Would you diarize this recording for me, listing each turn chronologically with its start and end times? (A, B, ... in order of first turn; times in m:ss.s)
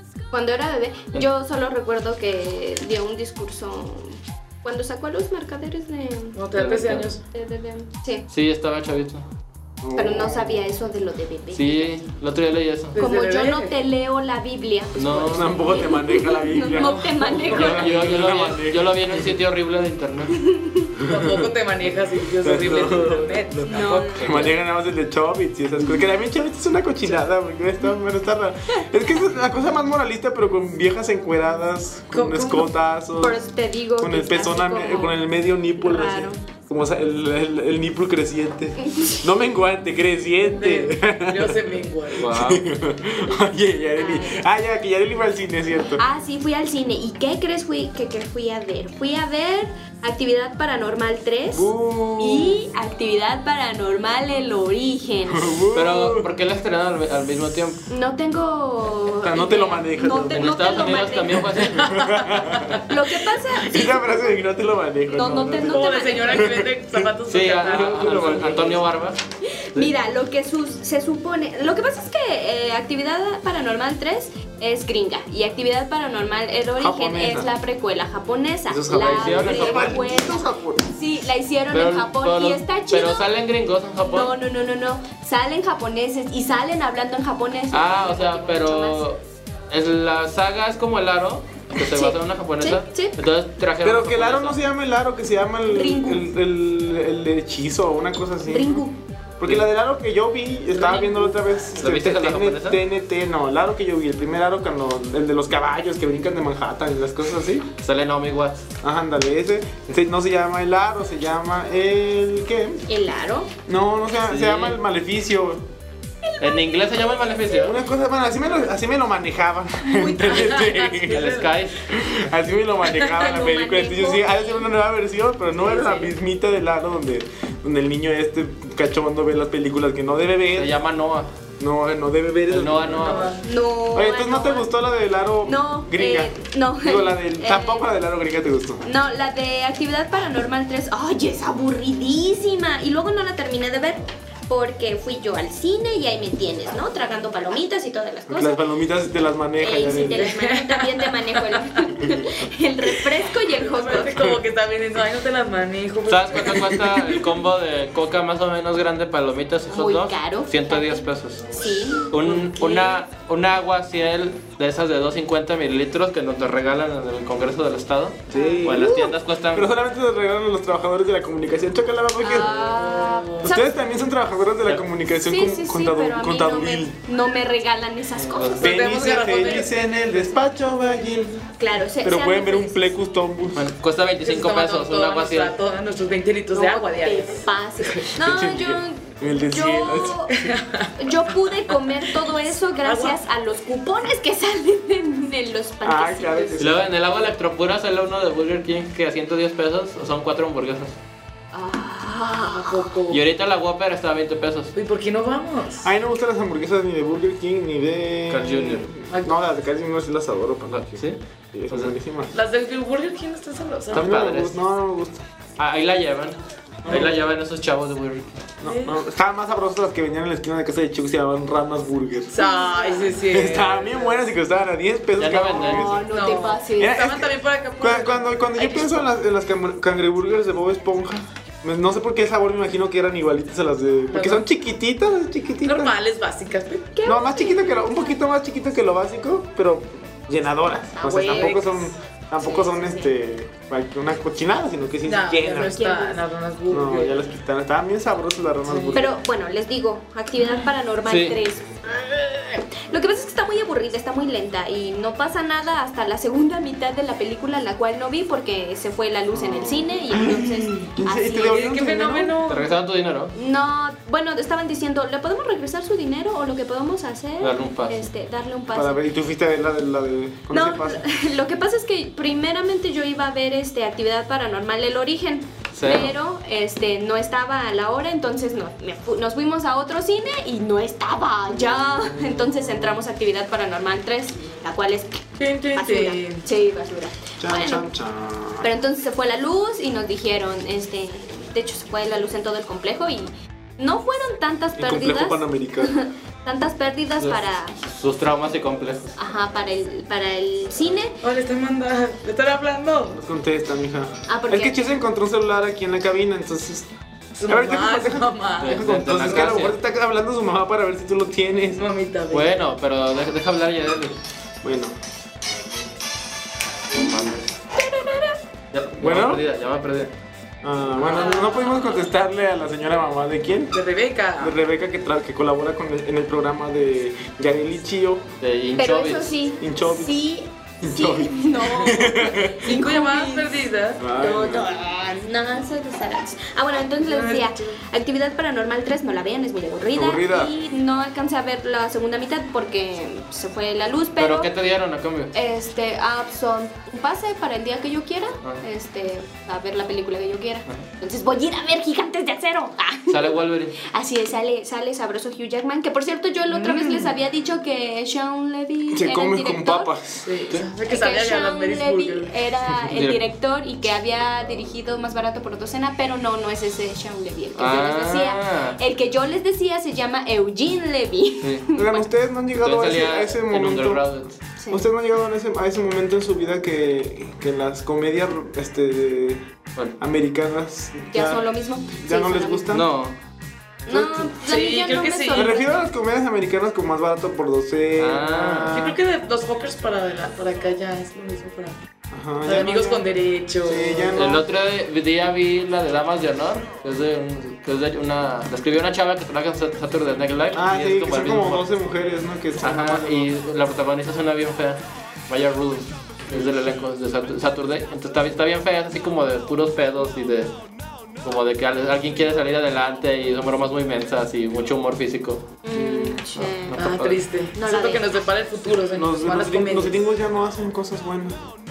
0:00.3-0:06.4 A
0:06.4-0:07.2 B
0:06.6-0:07.1 C
0:07.3-0:08.2 A
0:08.3-0:09.2 C
0:09.8-0:10.6 D
0:10.0-0:12.0 A
0:11.5-0:13.0 C
0:12.9-0:13.8 B
0:13.0-0:17.9 A
0:15.0-0:15.5 C
0:15.3-0:19.4 D
0:16.7-0:17.4 B
0:17.5-0:20.4 C
0:20.4-0:21.0 A
0:21.1-0:24.5 B
0:21.1-0:21.5 D
0:22.4-0:33.4 D
0:23.7-0:24.4 A
0:32.1-0:32.7 B
0:33.2-0:35.2 A
0:34.0-0:46.0 D
0:35.8-0:36.4 A
0:38.8-0:39.2 A
0:40.5-0:42.3 B
0:42.2-0:42.7 C
0:44.0-0:44.4 A
0:46.0-0:55.6 A
0:51.5-0:52.6 D
0:55.3-0:56.3 D
0:55.7-0:57.8 C
0:57.9-1:01.7 A
0:59.2-1:01.2 D
1:00.4-1:01.9 C
1:01.8-1:02.8 D
1:01.8-1:02.2 B
1:02.9-1:04.4 A
1:03.5-1:07.1 D
1:05.1-1:06.6 A
1:05.6-1:08.8 B
1:07.3-1:09.2 C
1:07.7-1:08.7 D
1:09.7-1:23.3 A
1:16.8-1:17.5 D
1:18.7-1:20.9 D
1:19.0-1:20.0 C
1:21.7-1:24.3 C
1:24.0-1:29.1 A
1:27.7-1:34.6 C
1:31.8-1:33.2 A
1:33.8-1:38.9 D
1:35.7-1:36.2 A
1:38.5-1:39.0 A
1:39.4-1:47.7 D
1:40.8-1:41.3 B
1:41.8-1:42.8 C
1:47.8-1:48.7 C
1:48.8-1:52.8 D
1:52.9-1:53.5 A
1:53.7-1:55.7 D
1:54.2-1:54.8 C
1:56.2-1:57.3 A
1:56.4-1:57.8 C
1:57.6-2:10.8 D
1:59.9-2:00.5 A
2:00.2-2:01.5 B
2:01.1-2:01.8 C
2:03.2-2:04.6 A
2:05.6-2:06.1 B
2:10.6-2:11.3 C
2:11.6-2:13.3 D
2:12.5-2:13.3 C
2:13.0-2:13.4 B
2:13.4-2:14.7 A
2:13.9-2:18.8 D
2:15.4-2:17.9 A
2:18.8-2:28.6 A
2:28.3-2:30.3 D
2:29.6-2:34.2 A
2:30.0-2:31.8 B
2:33.5-2:36.6 B
2:34.0-2:34.4 D
2:36.1-2:41.5 C
2:36.5-2:37.2 D
2:39.7-2:43.0 A
2:42.1-2:49.7 C
2:48.3-2:52.6 D
2:48.3-2:49.1 A
2:52.2-2:53.7 A
2:52.3-2:53.5 B
2:53.4-2:57.0 D
2:55.2-2:58.8 A
2:58.2-2:58.6 C
2:58.6-3:01.4 D
2:58.6-3:00.0 B
3:01.6-3:02.9 A
3:02.0-3:03.7 D
3:03.6-3:05.6 C
3:04.2-3:08.0 B
3:06.5-3:10.3 A
3:08.2-3:10.5 D
3:10.3-3:11.9 B
3:11.0-3:16.6 A
3:12.8-3:13.2 B
3:15.8-3:16.9 D
3:16.6-3:21.0 C
3:21.5-3:22.9 A
3:22.5-3:23.2 B
3:23.1-3:24.7 C
3:24.8-3:25.9 B
3:25.8-3:32.4 D
3:28.3-3:28.9 C
3:30.7-3:31.2 C
3:31.7-3:32.0 C
3:32.3-3:34.1 B
3:33.9-3:34.6 C
3:33.9-3:35.2 D
3:35.6-3:38.4 C
3:36.8-3:37.2 D
3:38.6-3:42.4 D
3:38.6-3:39.0 B
3:42.3-3:44.3 B
3:42.4-3:43.2 A
3:43.3-3:46.1 D
3:45.2-3:45.9 C
3:45.6-3:47.0 A
3:46.1-3:49.1 B
3:46.8-3:56.0 D
3:54.1-3:54.4 B
3:55.6-3:56.9 B
3:57.0-3:58.2 A
3:57.0-4:05.8 D
4:01.0-4:01.9 A
4:02.4-4:03.1 A
4:05.0-4:07.2 B
4:05.6-4:06.2 A
4:06.7-4:09.2 D
4:08.6-4:09.0 B
4:08.9-4:11.8 A
4:11.0-4:11.4 C
4:12.4-4:21.7 A
4:19.3-4:22.4 D
4:21.4-4:22.7 B
4:22.5-4:23.3 C
4:23.4-4:29.0 A
4:27.4-4:28.1 C
4:28.7-4:31.0 D
4:30.5-4:47.9 A
4:35.8-4:36.1 C
4:41.6-4:43.0 D
4:45.4-4:46.4 B
4:47.4-4:48.7 D
4:48.6-4:57.8 A
4:54.8-4:56.0 D
4:57.2-4:59.1 C
4:59.2-5:01.2 A
5:01.2-5:03.2 B
5:03.1-5:06.9 D
5:04.3-5:04.8 A
5:07.4-5:08.8 B
5:07.5-5:11.8 D
5:08.6-5:09.8 C
5:11.8-5:12.5 B
5:12.3-5:14.2 C
5:14.6-5:15.0 D
5:16.9-5:17.5 C
5:17.7-5:18.4 A
5:18.7-5:20.1 C
5:19.0-5:19.4 D
5:20.6-5:23.8 D
5:21.1-5:21.9 A
5:23.7-5:24.6 B
5:24.4-5:28.3 D
5:28.4-5:29.3 C
5:28.8-5:33.5 A
5:29.6-5:30.2 D
5:30.8-5:32.8 D
5:32.6-5:34.0 B
5:34.0-5:34.7 D
5:34.2-5:44.5 A
5:36.9-5:37.8 B
5:39.9-5:40.5 D
5:44.2-5:45.3 C
5:45.3-5:59.9 A
5:53.1-5:53.8 C
5:56.5-5:57.1 B
5:58.9-6:00.3 D
6:00.2-6:02.3 B
6:00.9-6:12.1 A
6:02.9-6:03.2 C
6:07.6-6:08.8 C
6:11.8-6:14.0 D
6:12.6-6:14.4 C
6:14.6-6:14.9 A
6:14.7-6:19.4 D
6:20.0-6:22.9 D
6:21.1-6:22.7 A
6:22.7-6:23.2 C
6:23.9-6:24.4 D
6:23.9-6:25.7 A
6:24.4-6:25.6 B
6:25.3-6:29.0 D
6:28.0-6:28.8 C
6:28.7-6:31.8 B
6:32.1-6:34.4 D
6:32.4-6:34.1 B
6:34.2-6:41.7 C
6:40.5-6:43.3 D
6:42.6-6:50.5 C
6:51.2-6:57.2 C
6:55.6-6:56.8 A
6:56.8-7:00.0 B
6:57.6-6:58.2 A
6:58.9-7:01.4 D